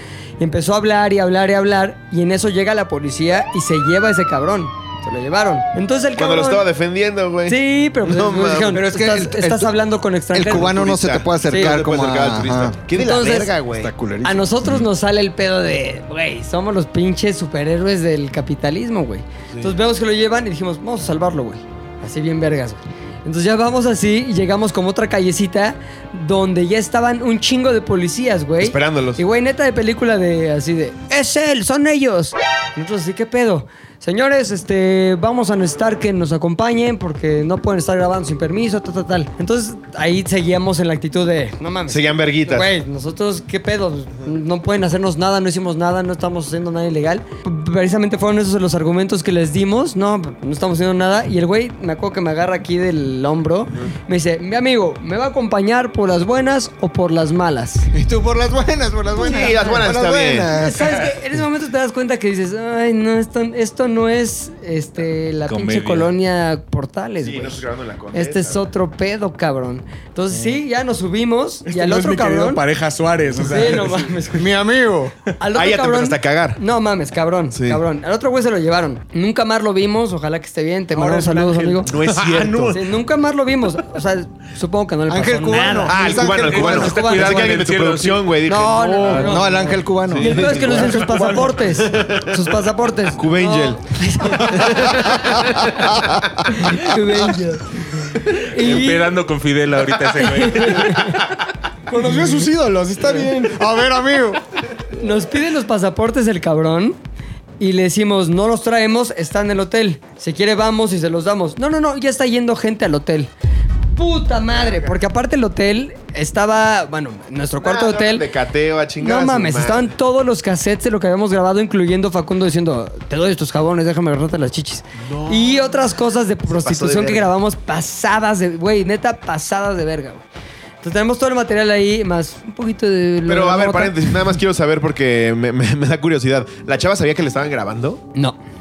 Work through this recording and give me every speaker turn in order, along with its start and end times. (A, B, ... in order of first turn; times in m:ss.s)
0:00.4-0:06.7 A
0:06.2-0:08.8 B
0:07.5-0:10.8 A
0:08.7-0:09.7 C
0:10.3-0:12.8 C
0:10.5-0:13.9 B
0:11.4-0:11.8 A
0:12.9-0:13.5 A
0:13.8-0:14.5 C
0:14.2-0:57.9 A
0:28.6-0:29.2 B
0:41.9-0:42.7 B
0:57.9-1:01.1 C
0:59.2-1:00.5 B
0:59.3-0:59.8 A
1:00.5-1:12.6 A
1:05.5-1:06.1 D
1:07.2-1:08.7 B
1:11.7-1:14.3 E
1:13.4-1:14.5 A
1:14.4-1:15.2 C
1:15.4-1:21.9 A
1:15.6-1:16.6 B
1:17.5-1:17.8 B
1:20.9-1:22.8 E
1:21.8-1:22.8 B
1:22.7-1:27.4 A
1:25.1-1:27.0 C
1:25.9-1:29.5 B
1:26.3-1:28.3 D
1:28.4-1:29.5 A
1:29.0-1:29.4 D
1:29.1-1:30.6 C
1:30.0-1:31.1 B
1:30.2-1:35.7 A
1:30.6-1:31.6 E
1:31.6-1:32.5 B
1:33.1-1:33.8 B
1:34.4-1:36.3 B
1:36.5-1:39.1 A
1:38.6-1:41.2 D
1:40.3-1:41.2 A
1:41.9-1:43.7 E
1:43.4-1:44.4 C
1:45.0-1:47.0 A
1:47.6-1:53.3 A
1:54.0-1:58.3 A
1:54.5-1:55.0 B
1:57.6-1:59.9 B
1:59.0-2:10.2 A
2:05.0-2:05.7 B
2:06.5-2:07.3 B
2:10.8-2:14.1 A
2:13.3-2:18.0 B